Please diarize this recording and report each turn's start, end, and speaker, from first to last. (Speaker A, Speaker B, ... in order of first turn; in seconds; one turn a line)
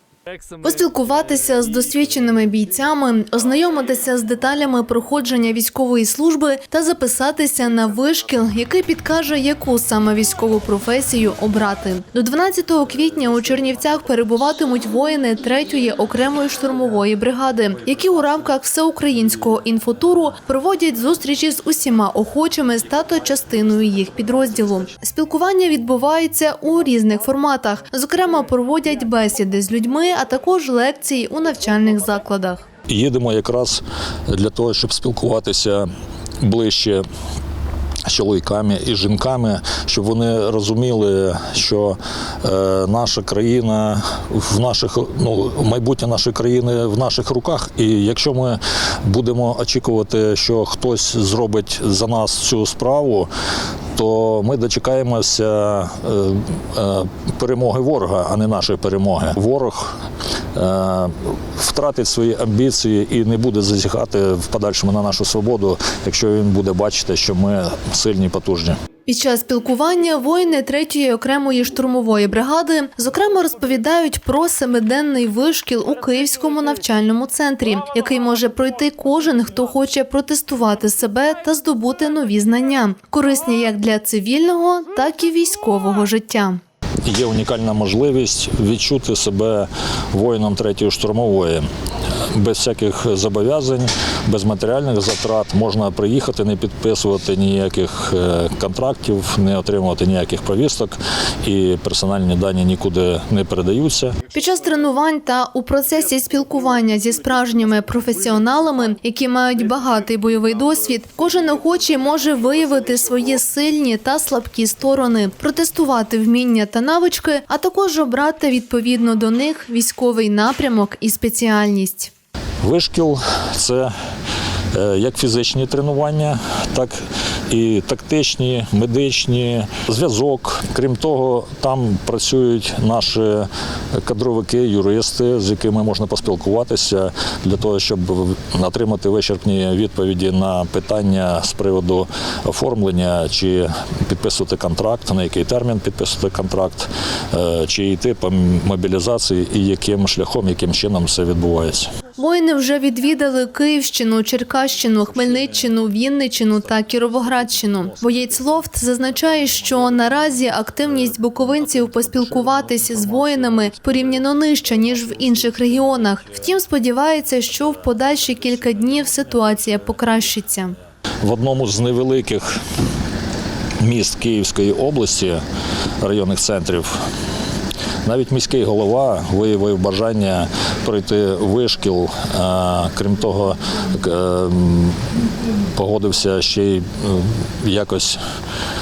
Speaker A: 0.6-32.6
Speaker B: 32.9-35.9
Speaker B: 36.4-37.0
Speaker B: 38.1-53.3
Speaker B: 54.0-59.9
Speaker B: 60.5-68.8
Speaker A: 69.1-86.6
Speaker B: 87.0-91.7
Speaker B: 92.3-104.2
Speaker A: 104.3-122.1
Speaker B: 122.6-123.9
Speaker B: 124.7-127.0
Speaker B: 127.5-151.9
Speaker A: 152.2-170.8
Speaker B: 171.2-172.6
Speaker B: 173.8-175.4
Speaker B: 176.0-176.9
Speaker B: 178.1-185.0
Speaker B: 185.8-188.2